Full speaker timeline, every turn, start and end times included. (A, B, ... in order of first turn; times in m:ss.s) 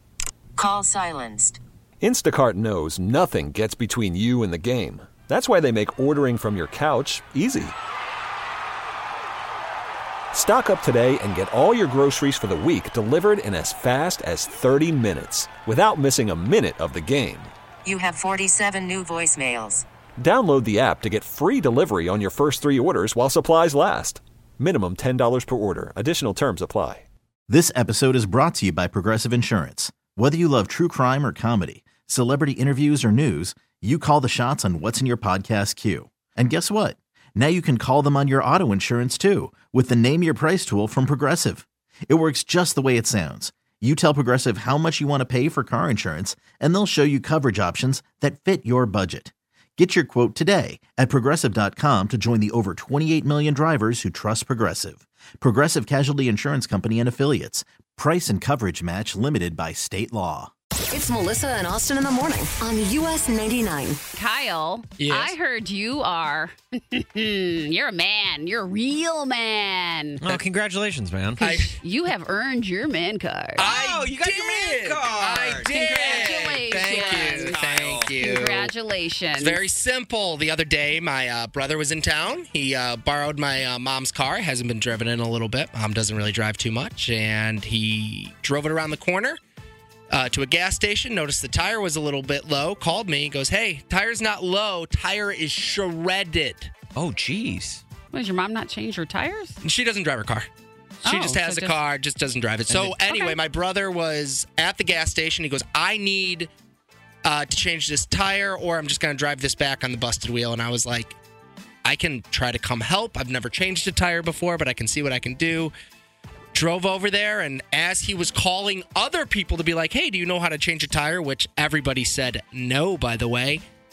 0:00.6-0:01.6 A
0:02.0-0:07.8 B
0:10.3-0:17.5 B
0:17.8-0:19.8 A
0:20.2-0:27.0 B
0:27.5-1:00.5 C
1:00.9-1:04.0 D
1:04.2-1:10.2 E
1:05.0-1:05.3 F
1:10.2-1:11.4 G
1:11.4-1:11.8 F
1:11.4-1:13.8 E
1:13.6-1:18.7 F
1:13.6-1:18.7 G
1:15.6-1:17.6 E
1:18.2-1:19.6 E
1:19.4-1:29.4 F
1:30.1-1:36.7 F
1:37.0-1:37.8 G
1:38.1-1:39.6 E
1:39.6-1:40.5 F
1:41.0-1:41.8 E
1:41.0-1:46.5 F
1:42.7-1:43.4 E
1:47.2-1:51.2 F
1:51.8-1:55.7 F
1:56.5-2:03.6 F